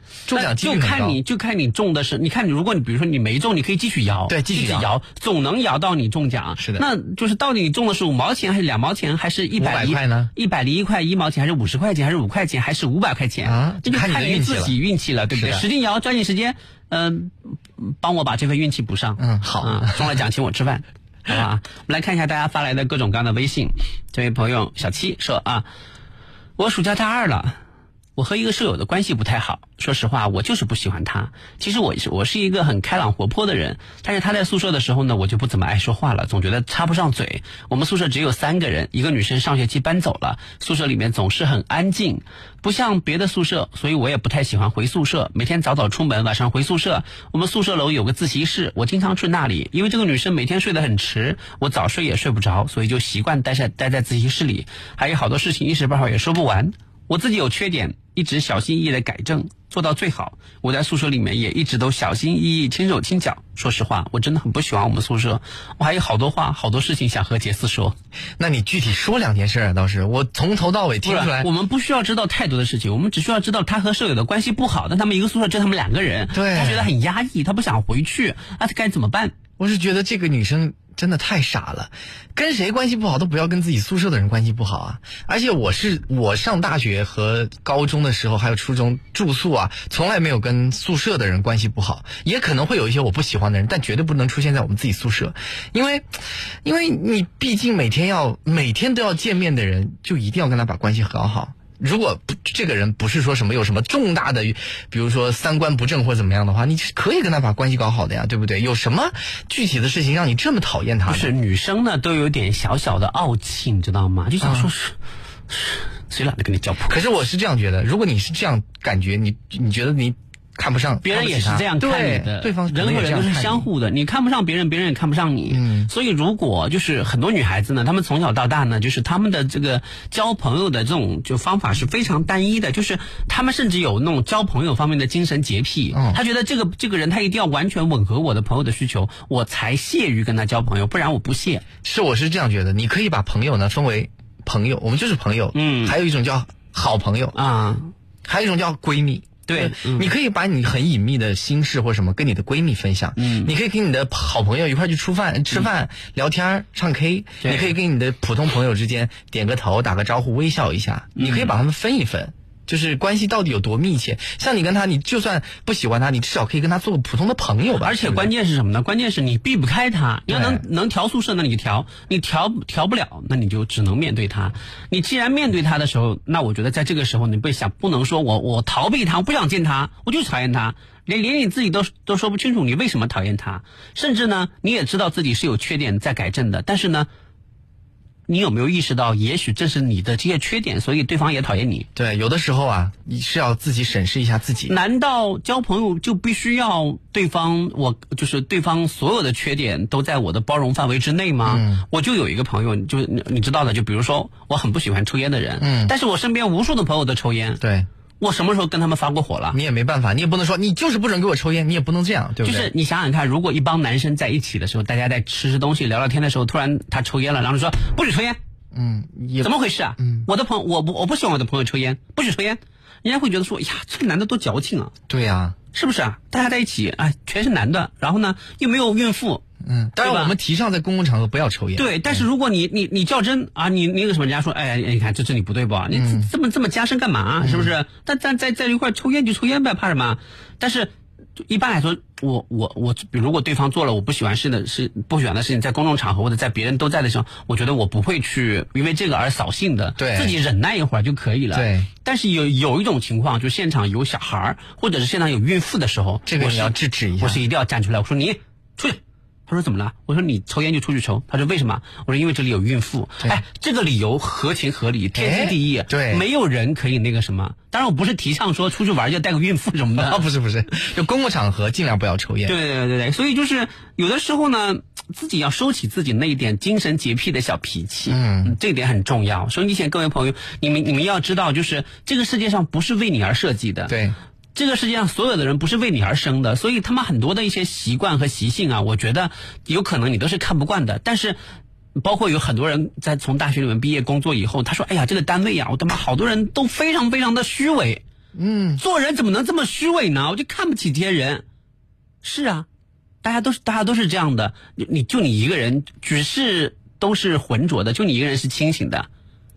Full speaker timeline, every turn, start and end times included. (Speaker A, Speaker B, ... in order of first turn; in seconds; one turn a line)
Speaker A: 0.3-1.2
Speaker B: 0.3-25.6
Speaker A: 4.3-4.9
Speaker A: 6.6-6.8
Speaker A: 9.6-10.3
Speaker A: 13.4-14.8
Speaker A: 15.3-15.6
Speaker A: 19.2-20.1
Speaker B: 26.6-27.6
Speaker B: 28.1-68.0
Speaker A: 68.4-71.5
Speaker B: 71.0-79.3
Speaker A: 76.3-76.9
Speaker A: 79.6-96.1
Speaker A: 96.6-111.3
Speaker B: 111.1-114.9
Speaker A: 114.4-114.7
Speaker B: 115.5-117.0
Speaker A: 116.9-123.7
Speaker B: 121.0-141.6
Speaker A: 125.5-125.9
Speaker A: 135.9-136.2
Speaker A: 141.8-147.3
Speaker B: 145.5-146.0
Speaker B: 147.3-147.9
Speaker A: 148.2-168.3
Speaker B: 149.5-150.1
Speaker B: 153.2-153.5
Speaker B: 157.4-157.7
Speaker B: 161.2-161.5
Speaker B: 167.8-187.1
Speaker A: 170.3-170.6
Speaker B: 188.3-191.9
Speaker A: 191.9-194.8
Speaker B: 194.7-207.6
Speaker A: 201.4-201.8
Speaker A: 205.6-205.9
Speaker A: 207.6-207.9
Speaker B: 208.2-209.6
Speaker A: 209.5-212.7
Speaker B: 212.4-218.4
Speaker A: 218.7-220.3
Speaker B: 219.4-224.9
Speaker A: 225.1-225.6
Speaker B: 225.7-229.4
Speaker A: 229.6-232.2
Speaker B: 230.0-230.3
Speaker B: 231.8-270.2
Speaker A: 235.9-236.3
Speaker A: 237.4-237.7
Speaker A: 250.0-250.3
Speaker A: 251.5-251.9
Speaker A: 256.2-257.4
Speaker A: 265.1-266.2
Speaker A: 269.9-272.6
Speaker B: 272.4-283.9
Speaker A: 278.1-278.6
Speaker A: 283.9-284.1
Speaker B: 284.5-291.4
Speaker B: 291.9-298.0
Speaker A: 298.3-298.8
Speaker B: 298.8-301.4
Speaker B: 302.2-302.6
Speaker B: 303.2-309.1